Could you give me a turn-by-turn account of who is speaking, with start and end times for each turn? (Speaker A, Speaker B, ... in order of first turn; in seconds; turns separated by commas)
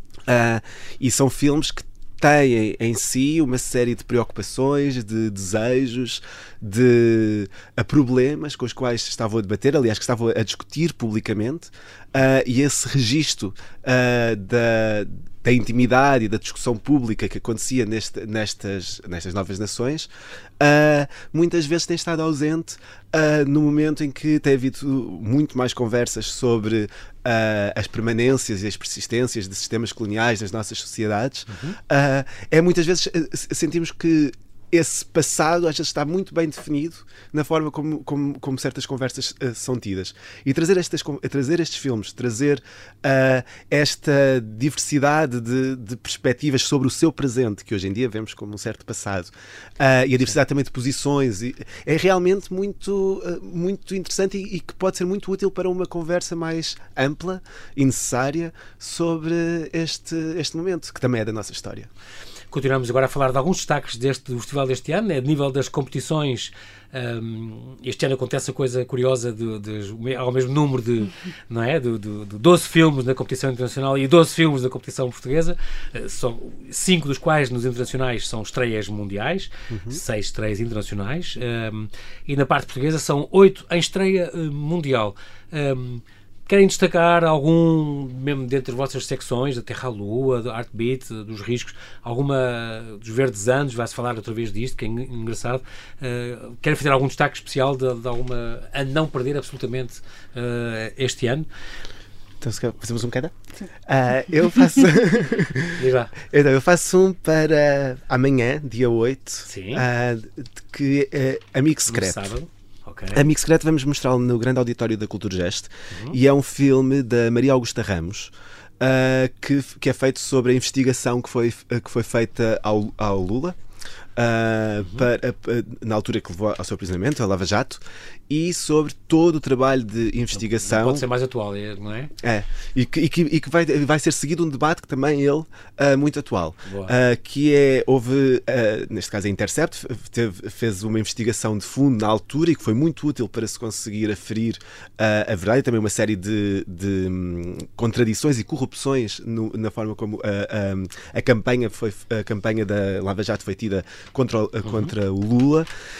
Speaker A: 0.3-20.1, Speaker A: 20.6-61.9, Speaker B: 31.5-31.8, Speaker B: 62.5-101.5, Speaker A: 79.7-80.0, Speaker A: 102.4-112.3, Speaker B: 105.8-106.2, Speaker B: 109.5-109.8, Speaker B: 111.9-113.2, Speaker A: 113.1-123.6, Speaker B: 115.9-116.2, Speaker A: 124.2-131.1, Speaker B: 130.5-132.1, Speaker A: 132.2-155.7, Speaker B: 136.7-136.9, Speaker B: 154.6-154.9